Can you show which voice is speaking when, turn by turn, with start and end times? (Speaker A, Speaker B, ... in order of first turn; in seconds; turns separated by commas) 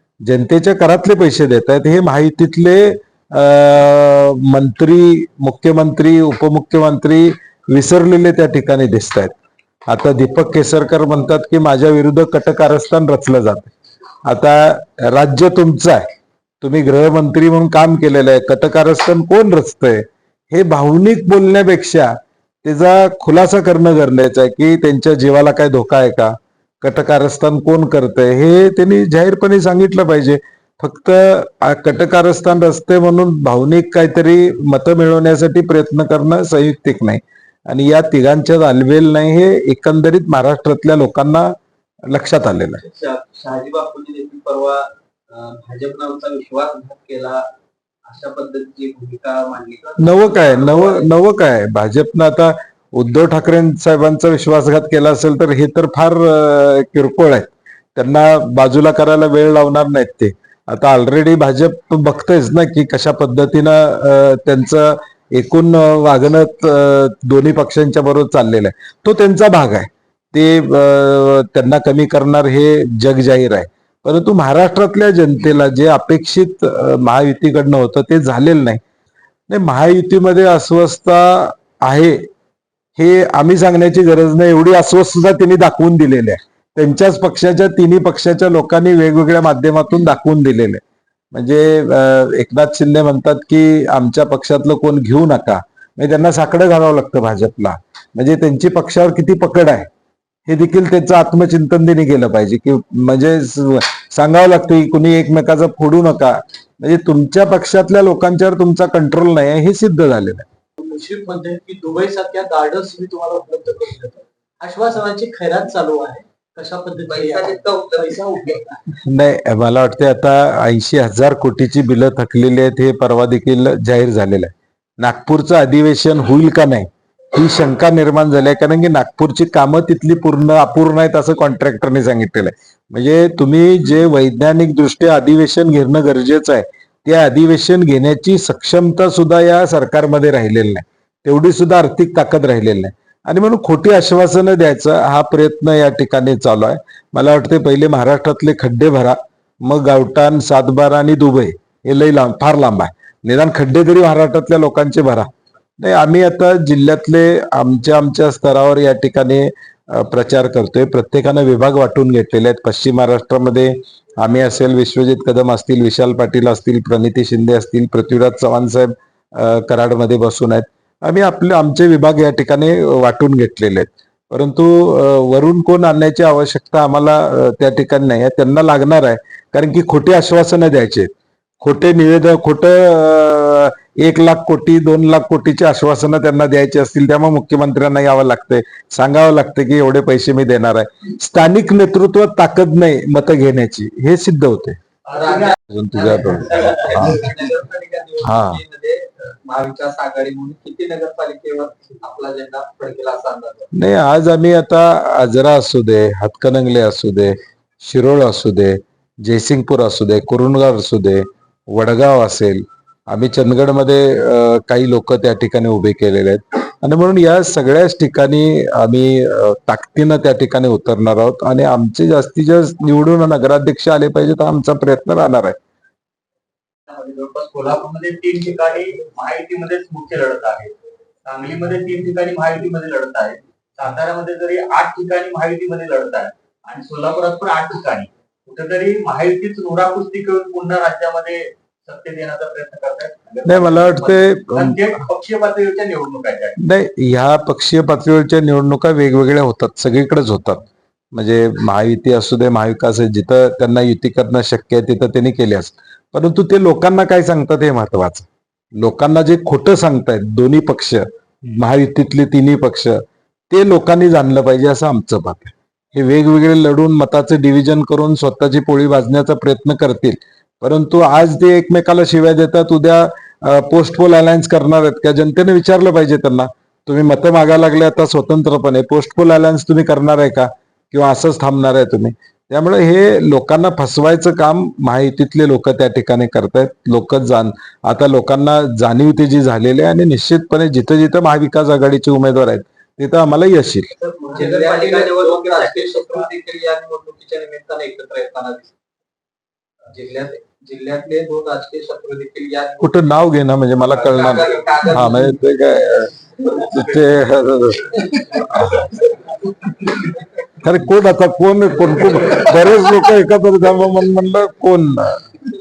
Speaker A: 0.2-9.3, Speaker A: 9.9-13.7, Speaker A: 14.2-16.0, Speaker A: 16.6-41.5, Speaker A: 42.1-42.8, Speaker B: 42.8-47.5, Speaker B: 48.0-51.1, Speaker A: 50.0-78.8, Speaker A: 79.5-82.2, Speaker A: 83.0-90.8, Speaker A: 91.3-99.9, Speaker A: 100.5-110.4, Speaker C: 110.8-118.8, Speaker B: 117.0-118.6, Speaker A: 119.0-155.3, Speaker A: 155.8-194.8, Speaker D: 195.1-195.6, Speaker B: 195.2-195.6, Speaker A: 195.7-197.3, Speaker B: 196.3-203.7, Speaker A: 198.2-198.6, Speaker A: 203.7-225.6, Speaker D: 226.9-230.7, Speaker D: 231.2-246.6, Speaker A: 243.4-244.9, Speaker A: 246.6-258.3, Speaker A: 258.8-293.9, Speaker B: 294.0-298.7, Speaker D: 294.2-296.3, Speaker C: 294.4-294.9, Speaker B: 299.9-302.9, Speaker A: 302.8-309.0, Speaker B: 303.9-305.4, Speaker A: 310.6-315.2